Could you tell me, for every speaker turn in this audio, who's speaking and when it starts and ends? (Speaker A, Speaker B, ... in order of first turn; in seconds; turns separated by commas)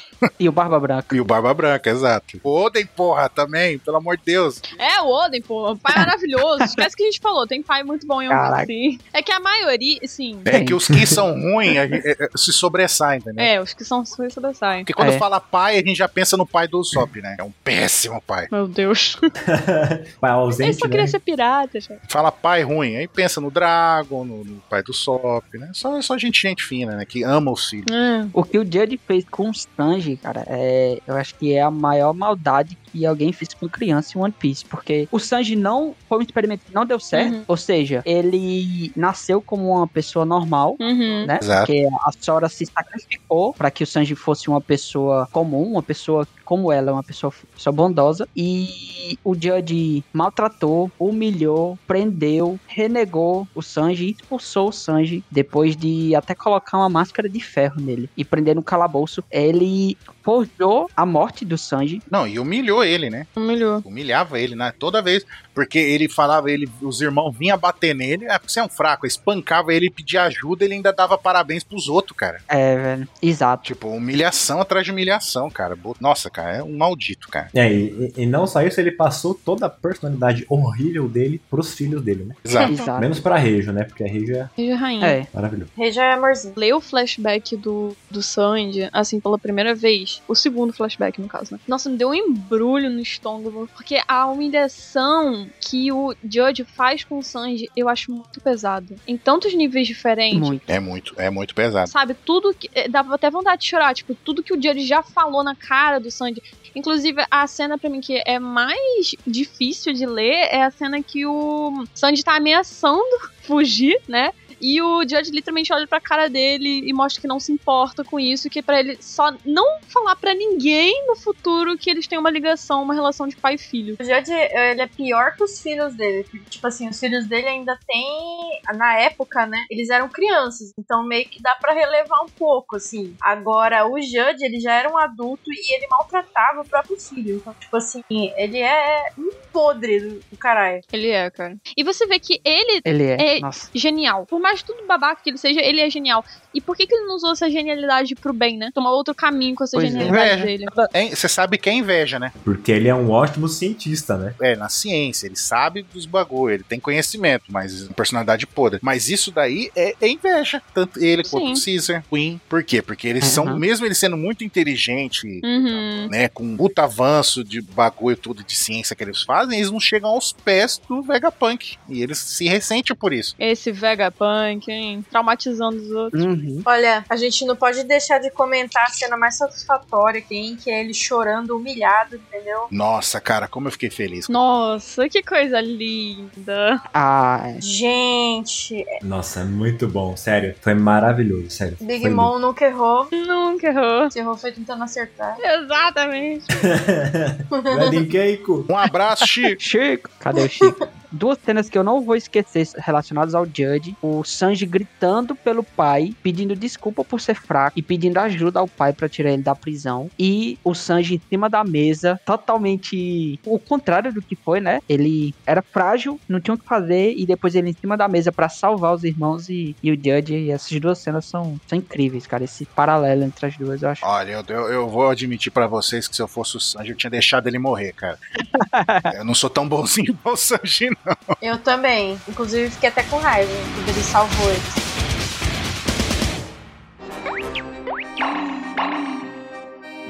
Speaker A: 0.4-1.2, Speaker B: 1.1-4.6, Speaker C: 4.7-10.5, Speaker A: 8.3-8.7, Speaker B: 10.5-13.5, Speaker A: 10.5-11.2, Speaker C: 13.4-14.9, Speaker B: 14.9-18.5, Speaker A: 15.0-15.2, Speaker C: 18.5-19.3, Speaker D: 19.4-21.2, Speaker C: 20.6-22.0, Speaker B: 22.1-27.9, Speaker C: 27.9-28.3, Speaker A: 28.3-62.0, Speaker C: 37.1-37.4, Speaker C: 40.8-41.3, Speaker B: 41.4-41.7, Speaker B: 62.1-63.3, Speaker C: 63.4-63.8, Speaker B: 63.9-72.4, Speaker A: 72.5-73.7, Speaker B: 73.6-77.5, Speaker D: 77.5-82.4, Speaker B: 82.4-82.7, Speaker A: 82.7-83.1, Speaker D: 83.0-84.5, Speaker C: 84.6-85.2, Speaker A: 85.0-85.3, Speaker D: 85.3-85.7, Speaker E: 85.8-86.6, Speaker C: 86.6-100.5, Speaker A: 100.3-100.6, Speaker B: 100.7-101.9, Speaker C: 101.9-124.0, Speaker E: 124.0-140.8, Speaker C: 140.9-150.7, Speaker A: 142.8-143.7, Speaker A: 149.7-150.9, Speaker B: 150.0-152.3, Speaker D: 152.4-154.3, Speaker B: 154.4-165.4, Speaker C: 161.2-161.6, Speaker A: 163.2-163.6, Speaker C: 165.4-166.1, Speaker B: 166.1-173.3, Speaker C: 173.4-176.2, Speaker A: 176.1-176.7, Speaker E: 176.7-182.7, Speaker B: 182.7-184.3, Speaker C: 184.3-186.8, Speaker A: 186.9-187.6, Speaker E: 187.6-188.9, Speaker D: 189.0-192.3, Speaker E: 191.8-193.1, Speaker C: 193.1-194.1, Speaker E: 194.1-195.4, Speaker C: 195.4-196.5, Speaker D: 196.5-198.7, Speaker E: 197.5-198.0, Speaker B: 198.7-199.5, Speaker A: 199.6-224.0, Speaker B: 224.0-228.2, Speaker A: 228.6-229.1, Speaker B: 229.1-231.3, Speaker E: 231.4-234.8